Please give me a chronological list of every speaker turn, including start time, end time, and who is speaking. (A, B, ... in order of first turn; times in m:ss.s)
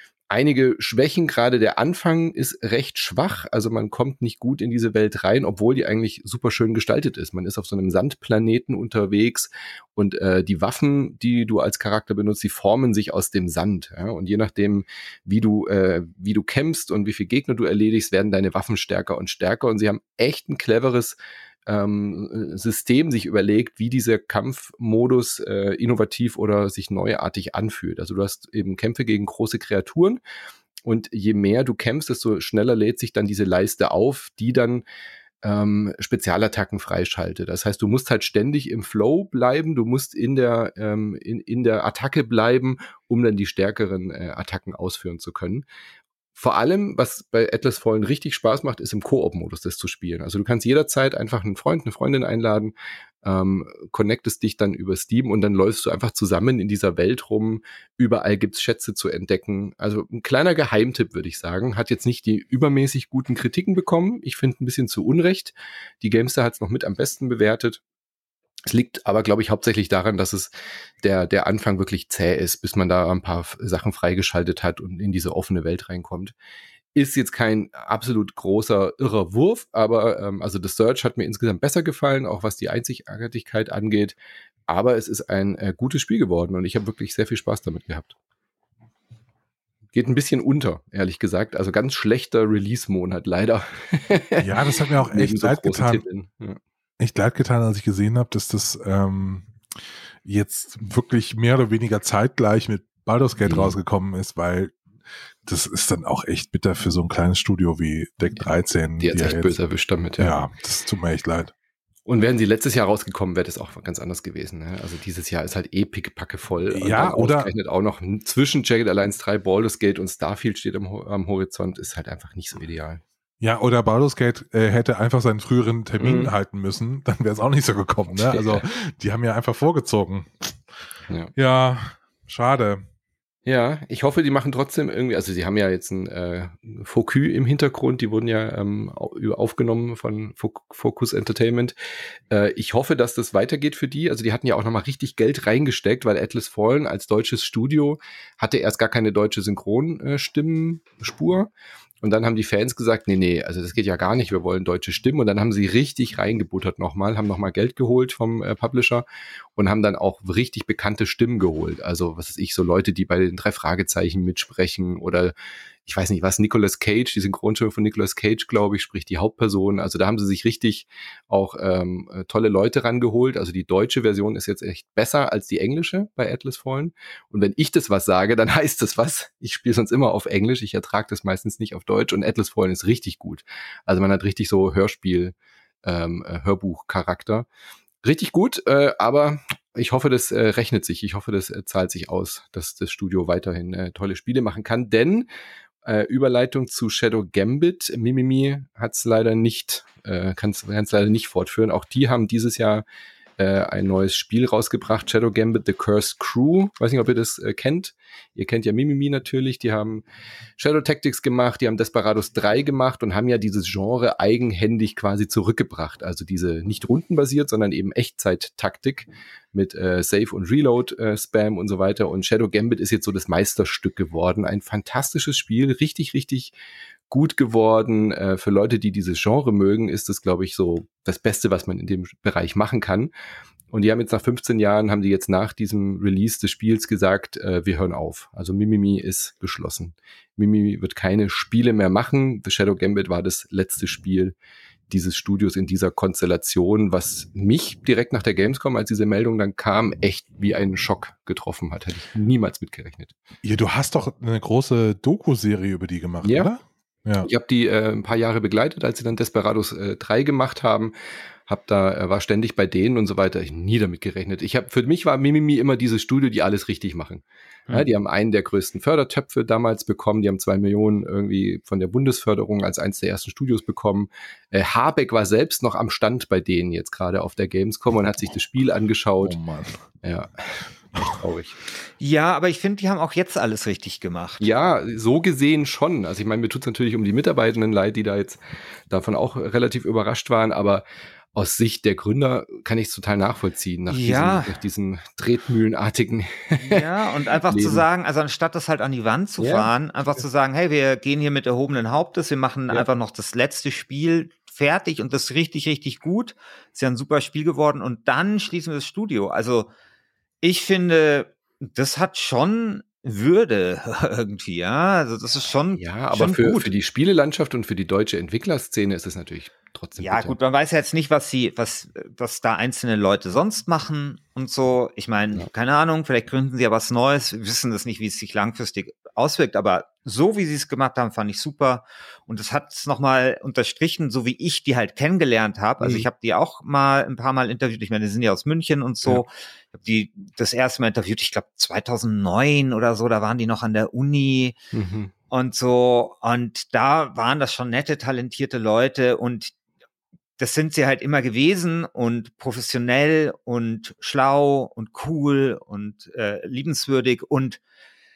0:00.3-0:30.2 A
0:30.8-0:34.8 A
0:35.4-0:45.7 A
0:46.4-1:07.8 A
1:08.7-1:16.3 A
1:17.0-1:24.2 A
1:24.7-1:28.2 A
1:29.9-1:36.6 A
1:34.4-1:36.0 B
1:37.0-1:39.5 B
1:40.2-1:44.8 B
1:43.4-1:43.8 A
1:45.5-1:49.6 B
1:49.0-1:50.4 A
1:50.2-1:51.5 B
1:52.1-2:03.0 A
1:56.7-1:57.5 B
2:03.4-2:10.5 B
2:06.0-2:06.3 A
2:08.2-2:08.6 A
2:11.4-2:12.8 B
2:13.5-2:21.8 A
2:22.3-2:39.0 A
2:39.6-2:45.3 A
2:45.9-3:07.5 A
3:08.0-3:15.3 A
3:15.8-3:22.8 A
3:23.4-3:30.0 A
3:30.6-3:46.5 A
3:47.1-3:53.1 A
3:53.7-4:04.4 A
4:04.9-4:13.1 A
4:13.4-4:17.3 B
4:16.2-4:16.5 A
4:17.2-4:20.9 A
4:21.5-4:39.4 A
4:39.2-4:39.8 B
4:40.0-4:41.6 A
4:42.0-4:44.5 C
4:44.4-4:56.8 A
4:53.9-4:54.6 C
4:56.6-5:09.7 C
4:57.4-4:57.8 A
4:59.4-4:59.7 A
5:10.4-5:16.7 C
5:15.8-5:20.4 A
5:20.0-5:44.6 C
5:35.8-5:36.1 A
5:44.7-5:45.1 A
5:45.3-5:49.6 C
5:50.4-5:57.6 C